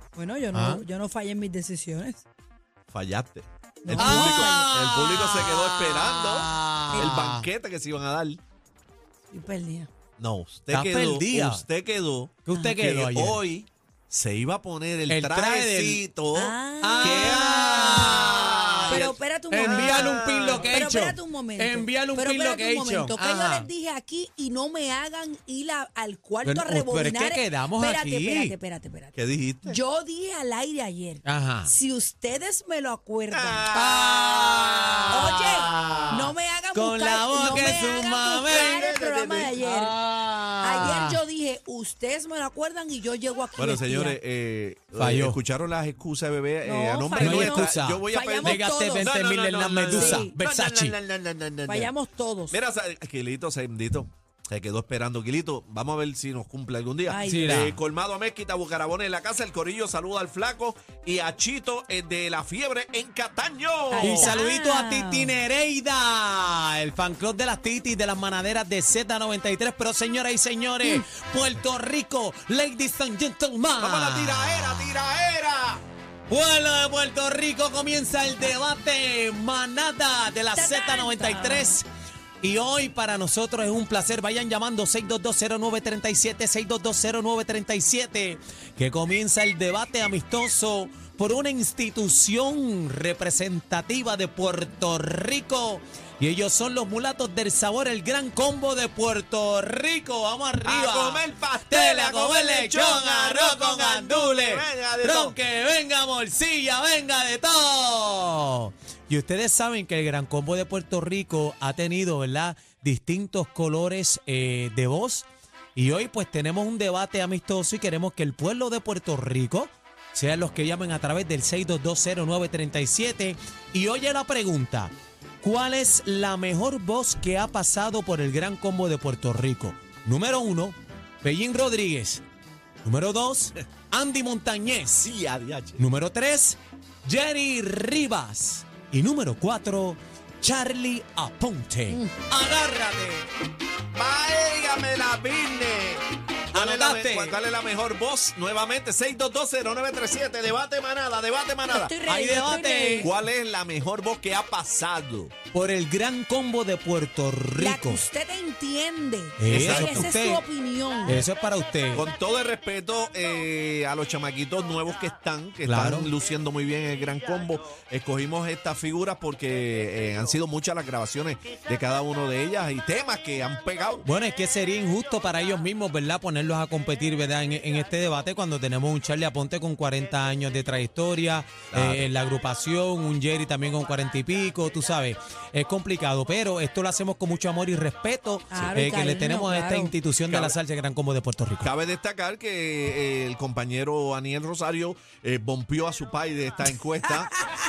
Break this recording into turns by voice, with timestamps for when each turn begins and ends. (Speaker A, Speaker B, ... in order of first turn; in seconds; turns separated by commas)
Speaker A: 0.1-2.2, Speaker B: 0.5-0.8, Speaker C: 2.9-8.4, Speaker A: 3.8-4.7, Speaker B: 3.9-7.4, Speaker A: 6.9-7.3, Speaker A: 9.3-9.9, Speaker C: 10.2-20.7, Speaker B: 10.7-11.6, Speaker B: 12.4-13.4, Speaker B: 15.1-16.0, Speaker A: 16.3-18.0, Speaker B: 16.8-23.7, Speaker A: 18.9-33.7, Speaker B: 26.4-28.5, Speaker C: 29.1-29.8, Speaker B: 31.2-31.7, Speaker C: 33.3-35.4, Speaker B: 33.7-38.9, Speaker A: 35.1-40.0, Speaker C: 38.4-39.6, Speaker B: 39.6-41.2, Speaker A: 40.6-44.2, Speaker C: 43.6-51.9, Speaker B: 45.0-45.4, Speaker A: 46.6-49.1, Speaker B: 47.2-51.0, Speaker A: 49.9-50.4, Speaker A: 51.7-52.5, Speaker C: 52.5-64.3, Speaker A: 57.1-57.6, Speaker B: 57.2-57.8, Speaker A: 63.9-65.3, Speaker B: 64.0-75.0, Speaker C: 73.8-75.8, Speaker B: 76.3-81.8, Speaker A: 80.5-81.8, Speaker B: 82.4-132.2, Speaker C: 100.6-105.3, Speaker B: 132.8-135.1, Speaker C: 135.0-135.8, Speaker B: 135.8-143.3, Speaker C: 143.9-151.9, Speaker B: 146.5-147.4, Speaker A: 151.7-153.1, Speaker B: 152.1-153.1, Speaker C: 153.0-155.3, Speaker B: 155.5-158.0, Speaker A: 157.6-161.2, Speaker B: 159.4-160.4, Speaker C: 159.5-160.1, Speaker B: 161.0-162.1, Speaker C: 161.9-174.0, Speaker B: 165.6-166.1, Speaker B: 174.0-191.7, Speaker C: 181.7-182.1, Speaker A: 188.5-189.9, Speaker C: 190.3-190.5, Speaker C: 191.6-197.3